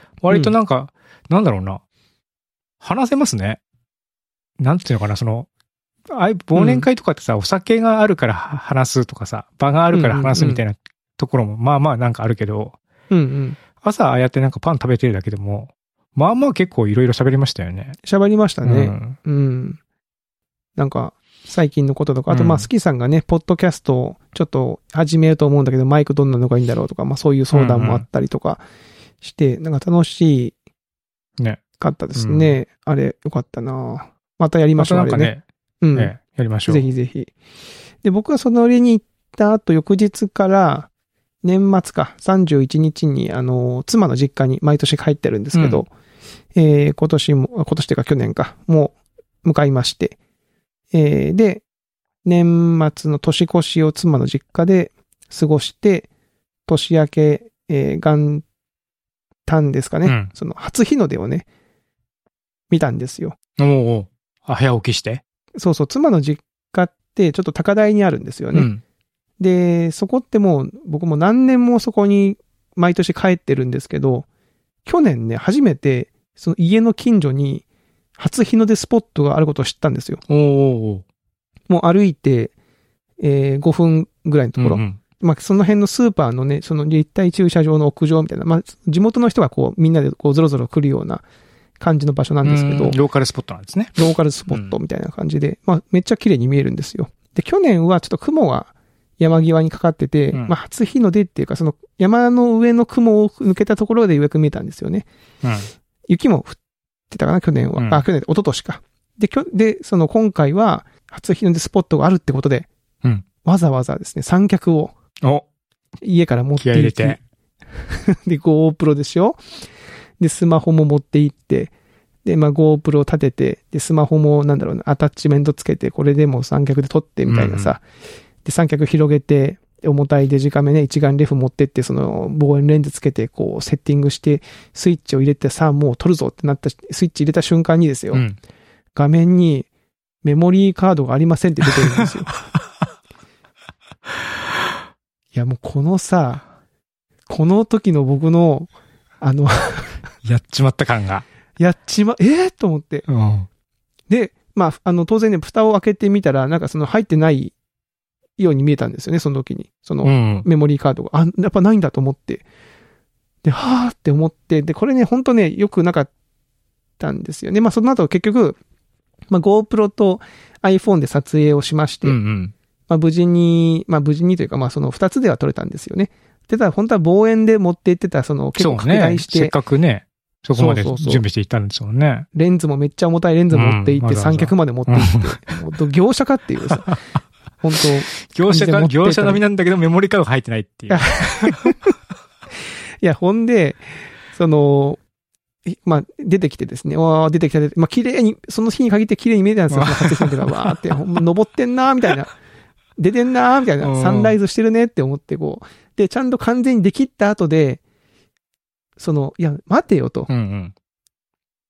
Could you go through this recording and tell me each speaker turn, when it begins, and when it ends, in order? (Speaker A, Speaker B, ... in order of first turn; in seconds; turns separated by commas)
Speaker A: 0.2-1.8, Speaker A: 2.8-3.6, Speaker A: 4.6-5.5, Speaker A: 6.1-12.8, Speaker B: 6.5-6.9, Speaker B: 9.9-10.6, Speaker B: 13.1-13.6, Speaker A: 13.8-18.0, Speaker B: 18.0-19.8, Speaker A: 18.6-19.2, Speaker B: 20.8-28.6, Speaker A: 22.3-22.7, Speaker A: 27.5-28.0, Speaker B: 29.2-30.5, Speaker B: 31.8-36.1, Speaker A: 32.1-32.5, Speaker A: 34.8-35.4, Speaker A: 35.9-36.9, Speaker B: 36.7-37.3, Speaker B: 38.0-40.9, Speaker B: 41.4-45.9, Speaker A: 45.5-45.8, Speaker B: 46.5-50.1, Speaker B: 50.9-51.6, Speaker B: 52.2-56.1, Speaker B: 56.7-58.4, Speaker B: 59.5-61.5, Speaker A: 60.0-60.3, Speaker B: 62.7-63.4, Speaker A: 63.6-65.2, Speaker B: 65.5-68.7, Speaker A: 68.5-68.8, Speaker B: 69.4-74.2, Speaker B: 74.8-77.6, Speaker B: 78.2-80.2, Speaker A: 80.3-81.0, Speaker B: 81.7-82.5, Speaker B: 83.2-91.2, Speaker A: 84.6-85.0, Speaker B: 91.8-93.0, Speaker A: 92.4-94.0, Speaker B: 94.0-105.1, Speaker A: 94.5-94.8, Speaker A: 105.4-105.7, Speaker B: 106.1-106.6, Speaker B: 107.1-112.7, Speaker A: 107.8-108.0, Speaker B: 113.4-114.9, Speaker B: 116.0-117.2, Speaker A: 116.6-117.2, Speaker B: 117.9-119.4, Speaker B: 120.2-121.7, Speaker B: 122.2-127.8, Speaker A: 127.3-127.8, Speaker B: 128.4-138.2, Speaker B: 138.9-139.7, Speaker B: 140.2-142.3, Speaker B: 145.3-146.4, Speaker B: 147.3-148.7, Speaker B: 149.2-150.0, Speaker A: 150.2-151.2, Speaker B: 151.6-153.1, Speaker A: 153.1-153.5, Speaker B: 154.1-157.5, Speaker B: 158.4-162.4, Speaker A: 160.0-160.4, Speaker B: 163.4-166.1, Speaker B: 167.0-168.6, Speaker B: 169.3-172.2, Speaker A: 172.0-172.5, Speaker B: 172.9-179.5, Speaker A: 178.6-182.3, Speaker B: 180.5-181.2, Speaker B: 182.3-186.9, Speaker A: 183.5-185.4, Speaker A: 186.7-187.0, Speaker B: 187.6-189.4, Speaker A: 188.1-191.9, Speaker B: 190.9-191.7, Speaker B: 193.0-193.8, Speaker B: 194.3-195.0, Speaker B: 195.7-202.3, Speaker A: 199.7-200.7, Speaker B: 203.0-207.8, Speaker A: 203.8-204.3, Speaker B: 209.0-210.3, Speaker A: 210.3-210.7